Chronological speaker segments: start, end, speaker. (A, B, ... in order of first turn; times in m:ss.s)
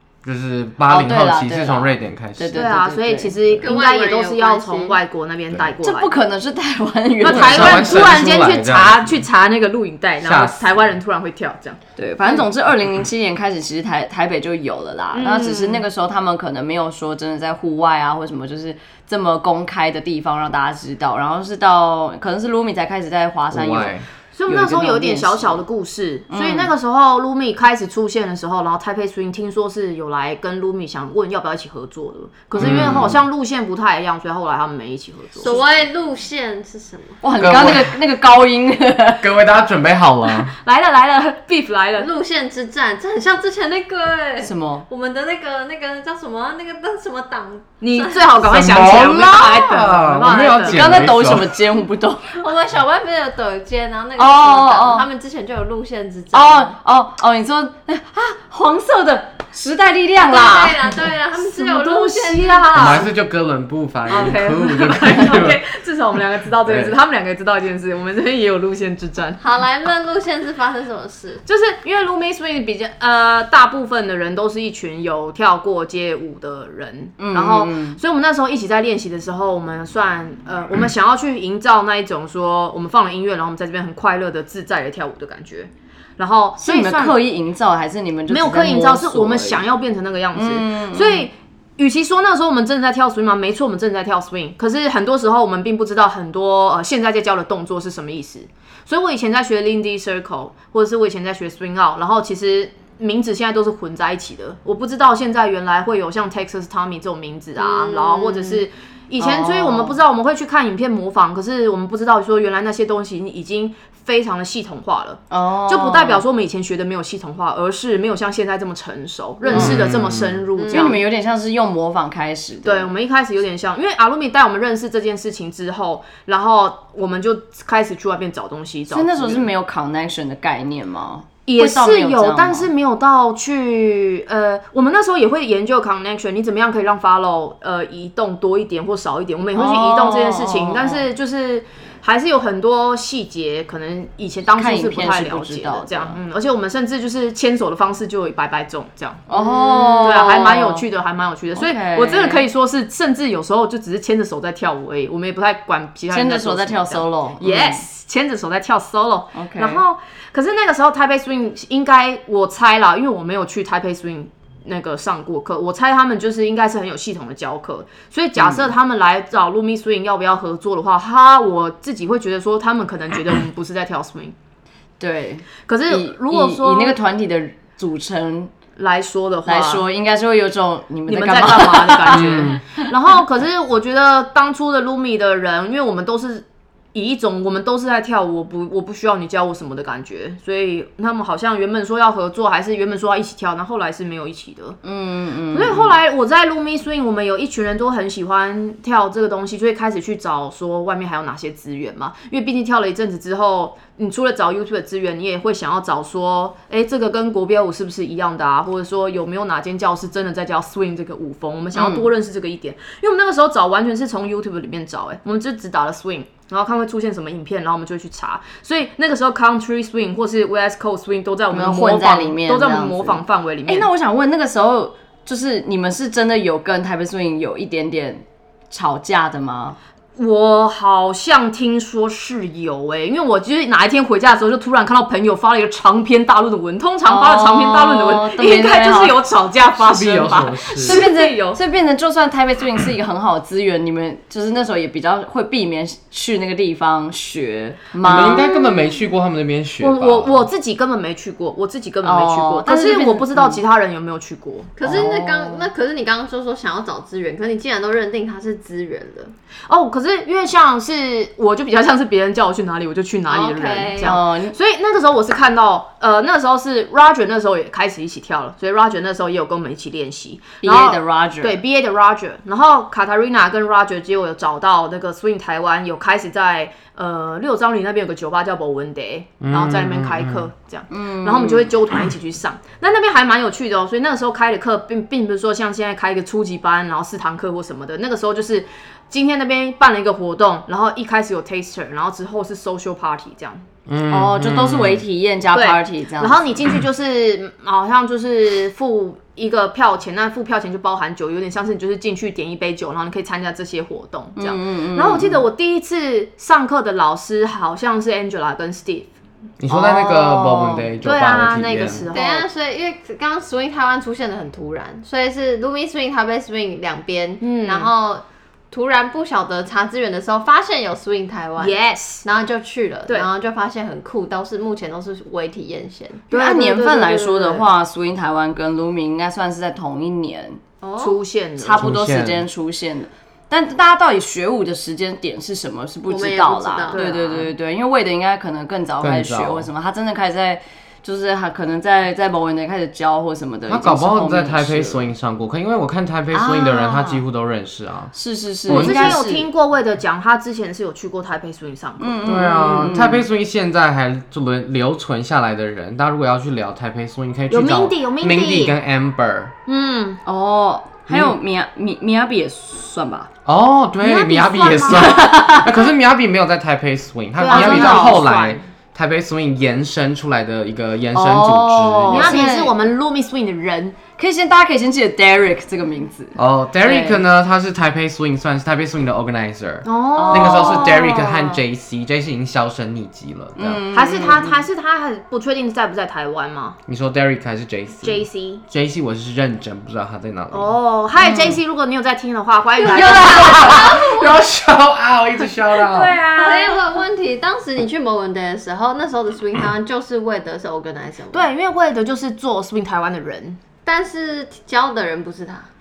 0:00.2-0:02.7 A
0:00.9-0:03.4 B
0:02.6-0:06.2 C
0:03.6-0:05.0 D
0:05.8-0:08.1 B
0:07.2-0:12.4 C
0:07.2-0:09.3 A
0:10.2-0:11.0 A
0:12.0-0:25.6 B
0:15.1-0:15.8 C
0:23.5-0:24.1 A
0:24.3-0:35.6 C
0:26.3-0:26.7 B
0:32.6-0:33.1 B
0:32.6-0:33.2 A
0:35.4-0:37.2 D
0:37.2-0:39.3 B
0:37.4-0:38.0 A
0:39.2-0:40.5 A
0:40.6-0:42.1 C
0:42.0-0:48.4 D
0:44.4-0:44.8 B
0:47.8-0:51.0 C
0:48.4-0:51.5 A
0:50.6-0:52.4 B
0:52.4-0:56.7 D
0:54.2-0:55.1 B
0:56.3-1:00.8 B
1:00.2-1:03.0 D
1:01.4-1:03.1 C
1:02.7-1:05.6 A
1:04.1-1:09.4 C
1:06.6-1:07.0 A
1:09.4-1:11.4 D
1:11.5-1:27.2 C
1:17.2-1:18.0 B
1:26.6-1:29.6 B
1:28.3-2:01.0 C
1:30.3-1:31.3 B
1:47.6-1:48.6 D
1:49.2-1:50.0 B
1:55.3-1:56.2 B
1:59.4-1:59.9 B
1:59.5-2:00.5 A
2:00.6-2:00.9 D
2:00.7-2:02.9 B
2:02.6-2:09.5 C
2:08.9-2:12.7 B
2:11.5-2:54.3 C
2:19.6-2:21.1 B
2:24.6-2:26.2 B
2:29.3-2:30.9 B
2:31.6-2:32.5 B
2:36.1-2:37.8 B
2:39.4-2:39.8 B
2:48.4-2:48.7 B
2:55.0-2:58.5 B
2:55.7-2:57.0 C
2:58.8-2:59.9 C
2:59.4-3:02.6 B
3:01.1-3:14.8 C
3:02.1-3:02.6 A
3:14.8-3:16.0 B
3:15.5-3:43.9 C
3:31.7-3:32.1 B
3:41.5-3:49.8 B
3:50.2-4:01.6 C
3:57.1-3:59.2 B
3:59.8-4:01.0 A
4:00.8-4:08.5 B
4:08.0-4:10.4 A
4:08.1-4:08.8 C
4:09.8-4:14.7 C
4:12.0-4:13.6 B
4:14.8-4:19.3 D
4:14.8-4:15.7 B
4:19.7-4:53.6 C
4:23.3-4:24.2 D
4:24.0-4:24.6 B
4:30.6-4:31.6 B
4:39.4-4:40.5 A
4:40.9-4:41.7 B
4:53.9-4:55.0 A
4:54.1-4:56.6 B
4:55.5-5:09.1 C
5:04.4-5:05.5 B
5:09.6-5:12.1 A
5:09.7-5:10.9 B
5:11.0-5:12.5 C
5:12.1-5:26.2 D
5:17.4-5:17.9 C
5:21.6-5:22.2 C
5:26.3-5:27.7 C
5:26.3-5:30.6 B
5:30.8-5:31.2 D
5:31.0-5:31.9 C
5:31.6-5:45.0 B
5:31.8-5:32.5 A
5:36.1-5:37.0 D
5:36.9-5:37.5 C
5:39.0-5:39.7 A
5:43.7-5:48.1 A
5:46.3-5:47.2 B
5:48.2-5:49.5 B
5:48.7-5:49.2 A
5:48.7-5:52.2 C
5:52.0-5:53.2 B
5:52.2-5:59.5 A
5:57.5-5:58.8 C
5:59.7-6:00.2 C
6:00.3-6:03.3 B
6:01.1-6:01.4 A
6:03.5-6:12.4 A
6:04.0-6:05.5 C
6:04.9-6:05.7 B
6:07.4-6:08.6 C
6:07.4-6:08.2 B
6:11.1-6:12.8 B
6:12.1-6:14.0 C
6:14.2-6:17.2 B
6:16.4-6:23.8 A
6:19.8-6:21.1 C
6:20.2-6:21.6 B
6:23.6-6:24.7 B
6:23.9-6:26.8 C
6:26.9-6:30.7 A
6:28.0-6:28.6 C
6:30.5-6:33.9 C
6:31.2-6:31.6 B
6:32.8-6:34.4 D
6:33.0-6:36.2 A
6:35.8-6:36.8 C
6:36.4-6:41.5 D
6:41.3-6:43.6 C
6:43.8-6:45.7 D